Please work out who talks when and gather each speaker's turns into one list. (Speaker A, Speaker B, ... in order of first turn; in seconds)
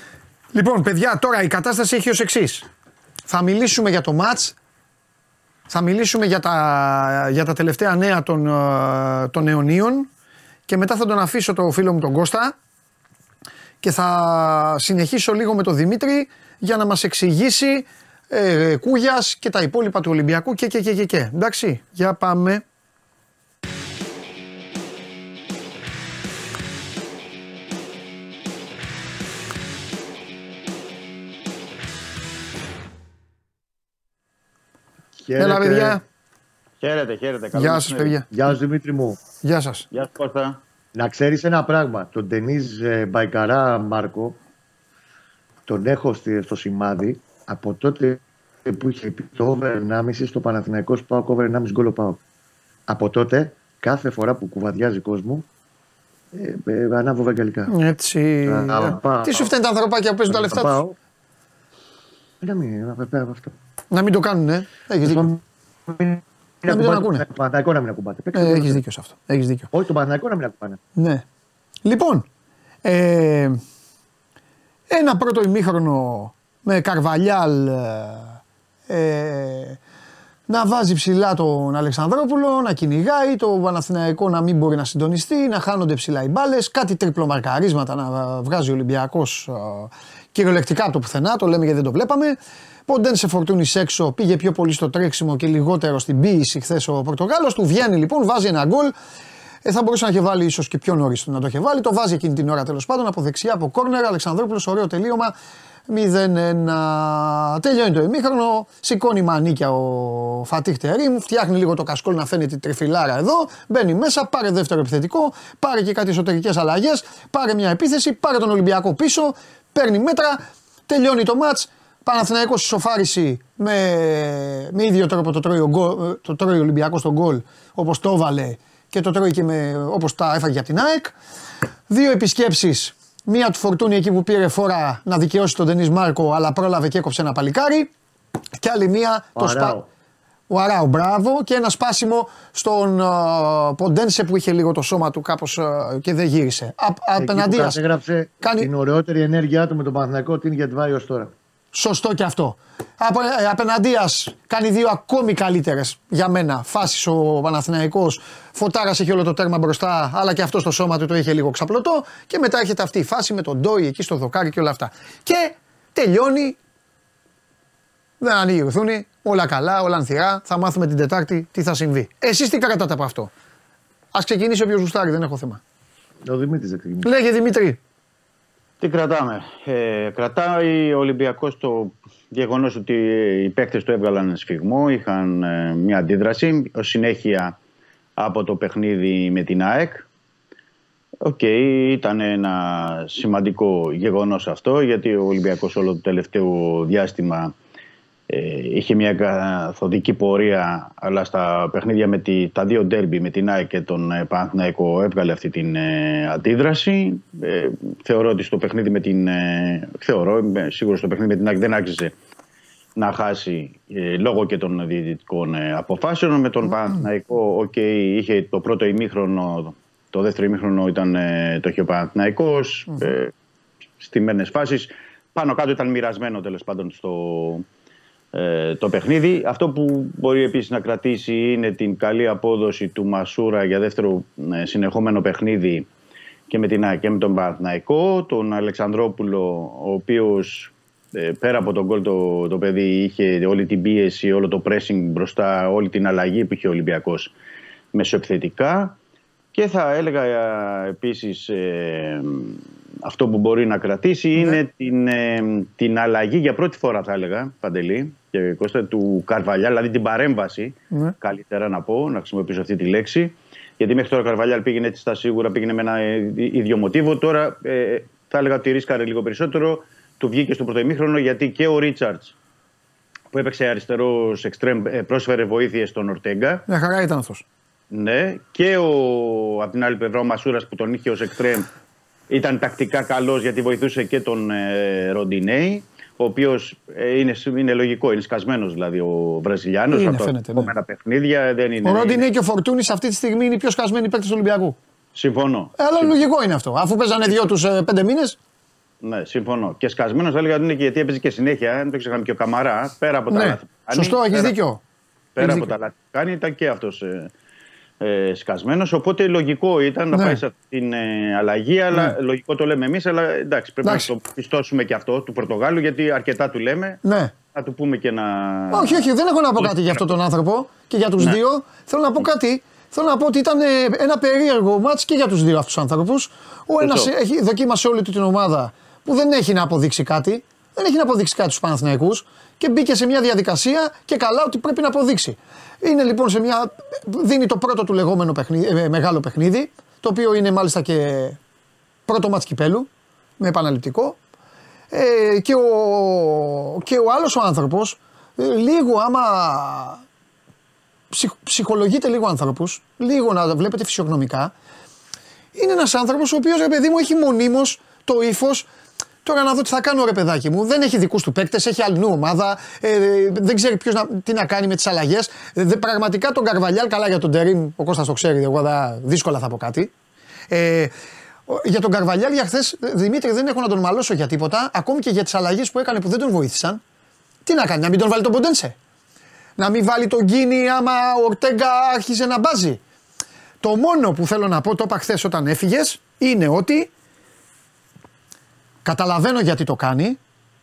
Speaker A: 0.6-2.7, 3.3-4.5, 5.7-10.1, 10.7-12.5, 13.8-22.6, 35.4-36.0, 37.5-38.3, 39.4-39.9, 57.7-60.8, 63.9-65.3, 66.7-67.2, 68.3-69.7, 71.0-71.2, 71.8-72.2, 72.8-73.6, 74.9-78.4, 78.9-79.8, 80.5-99.0, 99.6-105.3, 105.9-131.1, 131.9-137.9, 138.6-139.8, 140.5-147.8, 148.4-148.7, 151.7-166.6, 168.2-173.3, 174.1-175.6, 177.0-177.8, 276.7-277.4, 289.9-290.7, 291.8-294.8, 295.8-298.4, 303.3-304.8, 305.4-305.7, 310.1-310.4, 313.8-314.1, 317.0-317.3, 318.7-341.4, 342.1-344.2, 344.9-350.0, 351.1-354.5, 355.6-358.7, 359.2-369.9, 370.5-370.9, 371.5-376.8, 377.4-378.8, 379.6-382.8, 383.6-386.9, 388.9-390.2
Speaker B: 35.2-36.0, 38.3-39.2, 41.0-44.4, 45.7-52.2, 52.9-55.5, 56.3-57.8, 58.5-59.5, 60.3-61.0, 62.4-63.5, 65.1-68.8, 69.7-70.8, 139.4-139.9, 147.2-151.3, 176.3-177.1
Speaker C: 36.8-38.2, 39.9-40.6, 178.8-187.6, 188.2-190.1, 191.2-197.5, 198.3-212.1, 212.9-223.3, 224.0-227.7, 228.3-235.9, 236.5-247.3, 247.9-248.9, 249.5-272.3, 273.3-276.6, 277.9-281.7, 282.3-292.2, 295.1-296.2, 299.0-304.6, 305.4-307.3, 308.0-317.0, 317.5-320.0, 326.8-327.1